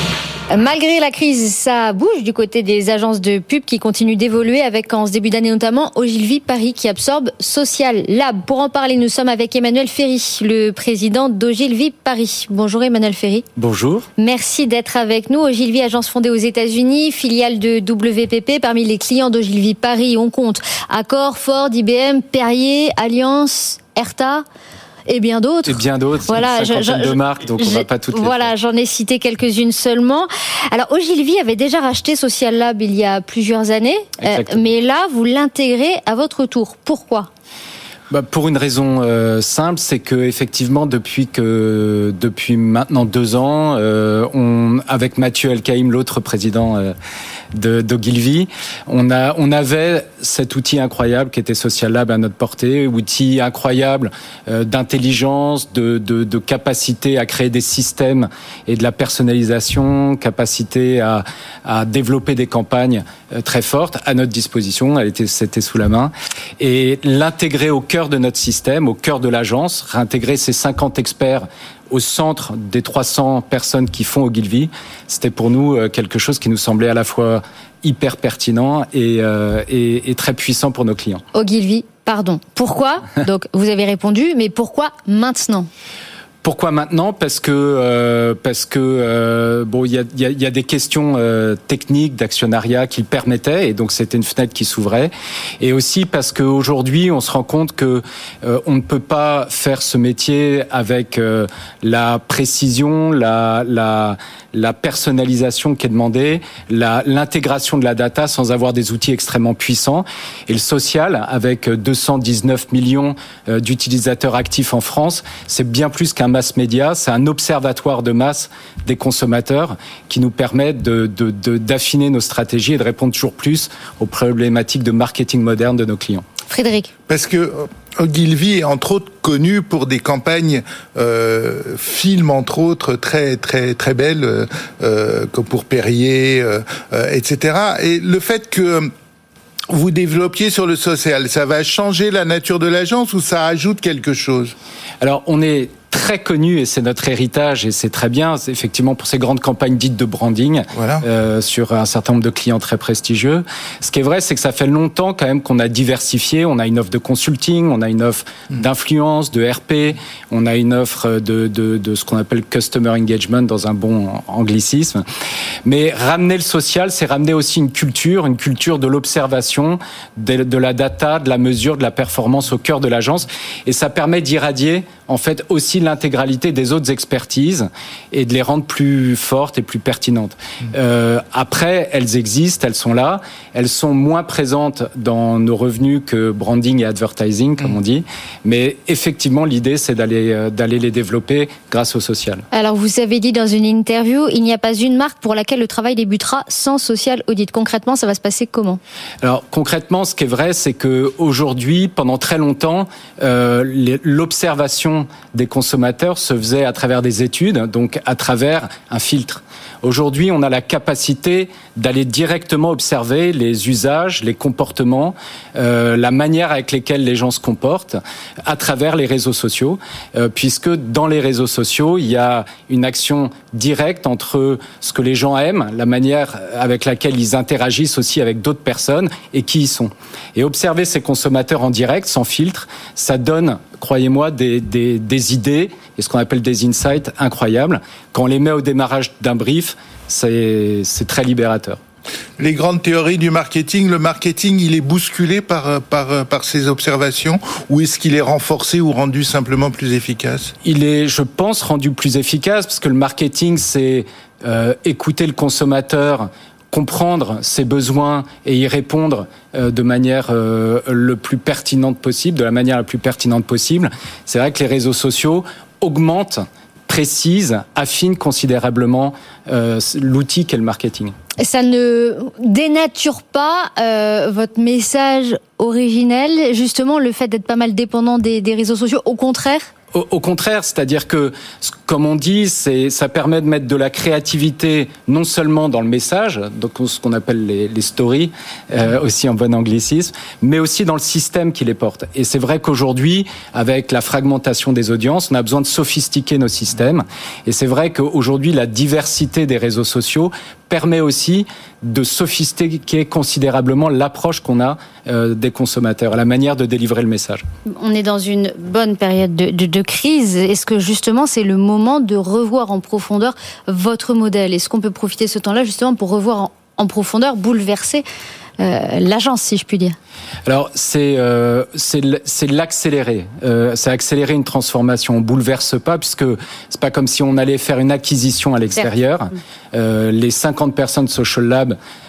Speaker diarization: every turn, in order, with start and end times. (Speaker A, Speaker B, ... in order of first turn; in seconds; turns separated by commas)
Speaker A: 0.5-13.4, Speaker B: 13.6-14.1, Speaker A: 14.2-24.4, Speaker A: 25.1-37.3, Speaker B: 25.6-28.5, Speaker B: 34.2-34.7, Speaker B: 38.1-46.9, Speaker B: 47.5-81.2, Speaker A: 81.3-85.7, Speaker B: 86.4-126.2, Speaker A: 126.5-126.9, Speaker C: 127.1-138.9, Speaker C: 139.7-144.5, Speaker B: 145.0-165.0, Speaker C: 150.7-151.0, Speaker B: 165.6-192.4, Speaker A: 192.5-198.8, Speaker B: 199.2-241.8, Speaker C: 242.4-250.5, Speaker B: 250.6-271.1, Speaker A: 271.4-279.7, Speaker B: 279.9-307.4, Speaker A: 307.7-318.0, Speaker A: 318.6-319.9, Speaker B: 320.4-331.8